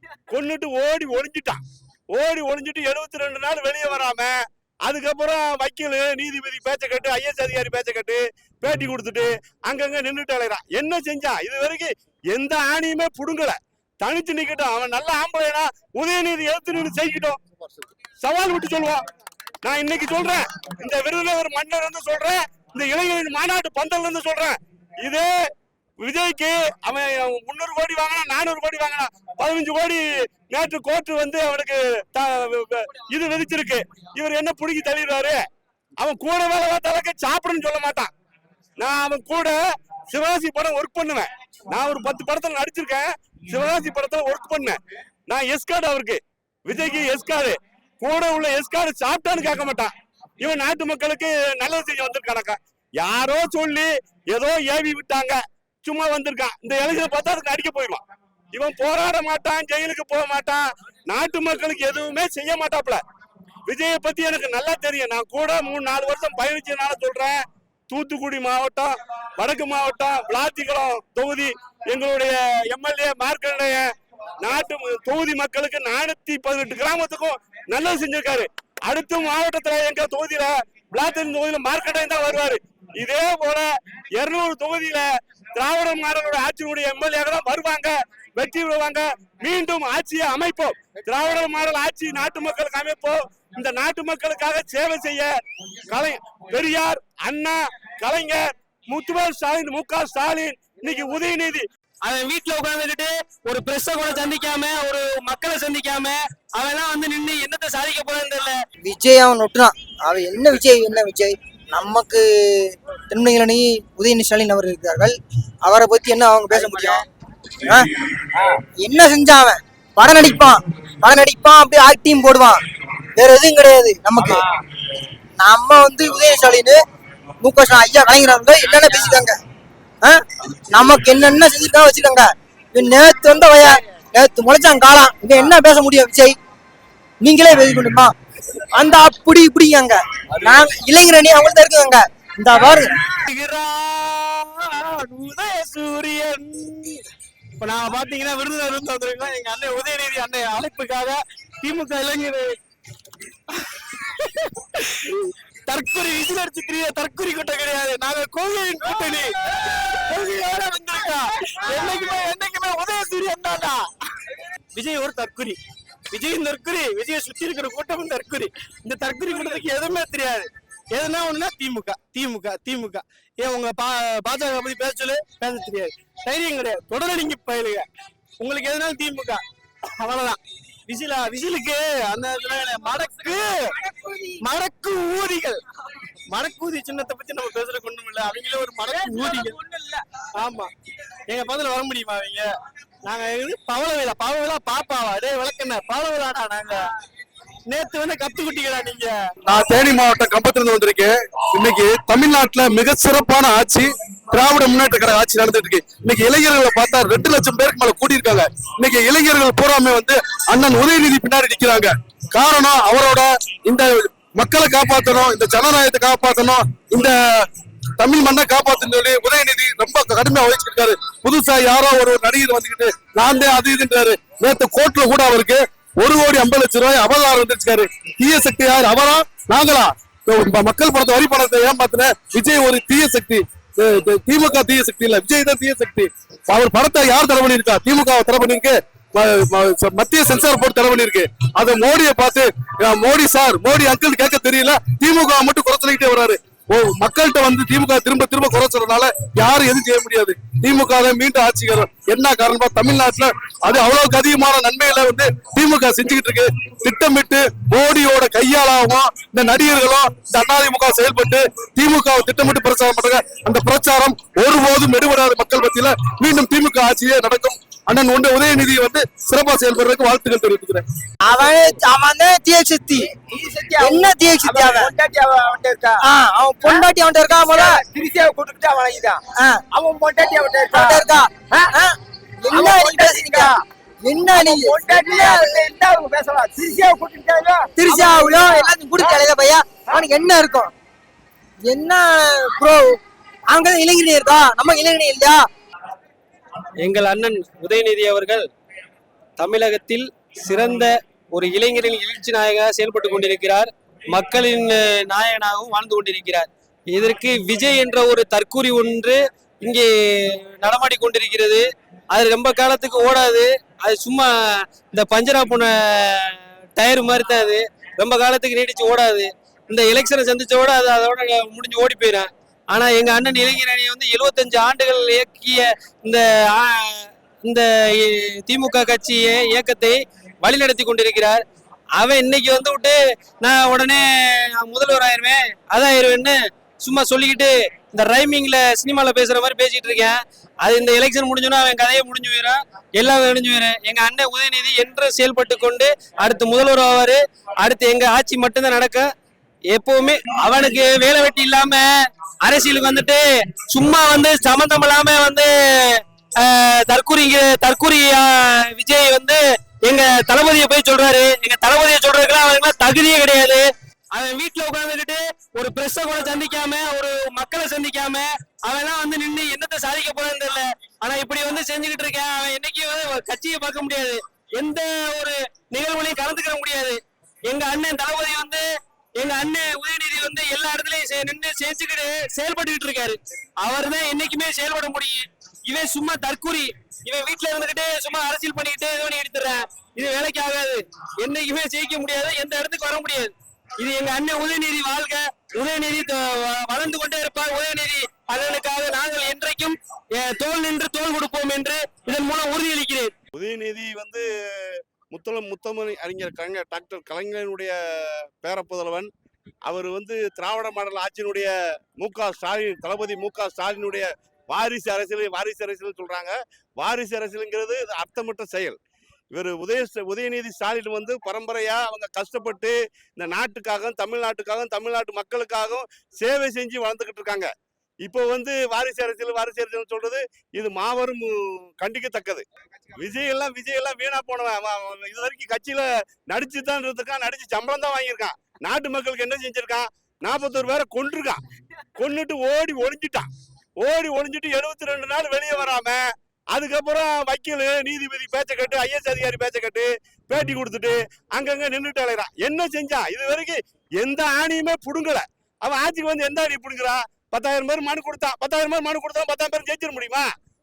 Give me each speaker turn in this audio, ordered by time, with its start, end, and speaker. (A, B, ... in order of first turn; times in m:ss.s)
0:00.3-0:01.6 A
0:02.1-0:17.4 A
0:18.2-0:19.0 A
0:19.6-0:25.3 A
0:26.0-0:35.4 A
0:36.0-0:38.1 A
0:38.8-0:58.0 A
0:58.5-1:03.0 A
1:03.7-1:13.9 A
1:14.4-1:35.3 A
1:35.9-1:41.7 A
1:42.0-1:48.6 B
1:48.8-1:57.0 C
1:56.5-1:57.0 B
1:57.6-1:57.9 C
1:58.8-2:02.6 C
2:03.2-2:04.4 C
2:05.4-2:06.8 C
2:07.4-2:09.4 C
2:10.0-2:16.4 C
2:17.2-2:18.1 C
2:18.7-2:22.9 C
2:23.1-2:27.0 B
2:27.6-2:32.6 B
2:33.6-2:43.9 B
2:44.7-2:45.6 B
2:46.1-2:57.9 B
2:58.4-2:59.4 B
3:00.0-3:03.7 B
3:04.4-3:05.6 B
3:06.3-3:09.6 B
3:10.4-3:10.7 B
3:11.3-3:12.5 B
3:13.0-3:16.8 B
3:17.7-3:19.2 B
3:19.4-4:30.8 D
4:31.2-4:33.1 C
4:33.2-4:36.0 E
4:33.8-4:34.9 C
4:36.0-4:37.8 C
4:37.6-4:39.2 E
4:39.4-4:39.6 C
4:39.7-4:40.9 E
4:40.7-4:45.7 C
4:42.5-4:43.6 E
4:44.6-4:47.7 E
4:47.8-4:50.7 C
4:51.7-4:55.4 C
4:56.8-4:58.4 B
4:59.4-5:31.4 B
5:32.0-5:49.1 B
5:49.7-5:51.9 B
5:52.4-6:18.6 B
6:19.2-6:43.1 B
6:43.3-6:44.3 A
6:45.1-6:49.1 A
6:49.6-6:58.8 A
6:59.3-7:07.5 A
7:08.0-7:12.4 A
7:13.0-7:21.4 A
7:22.0-7:23.3 A
7:23.8-7:40.3 A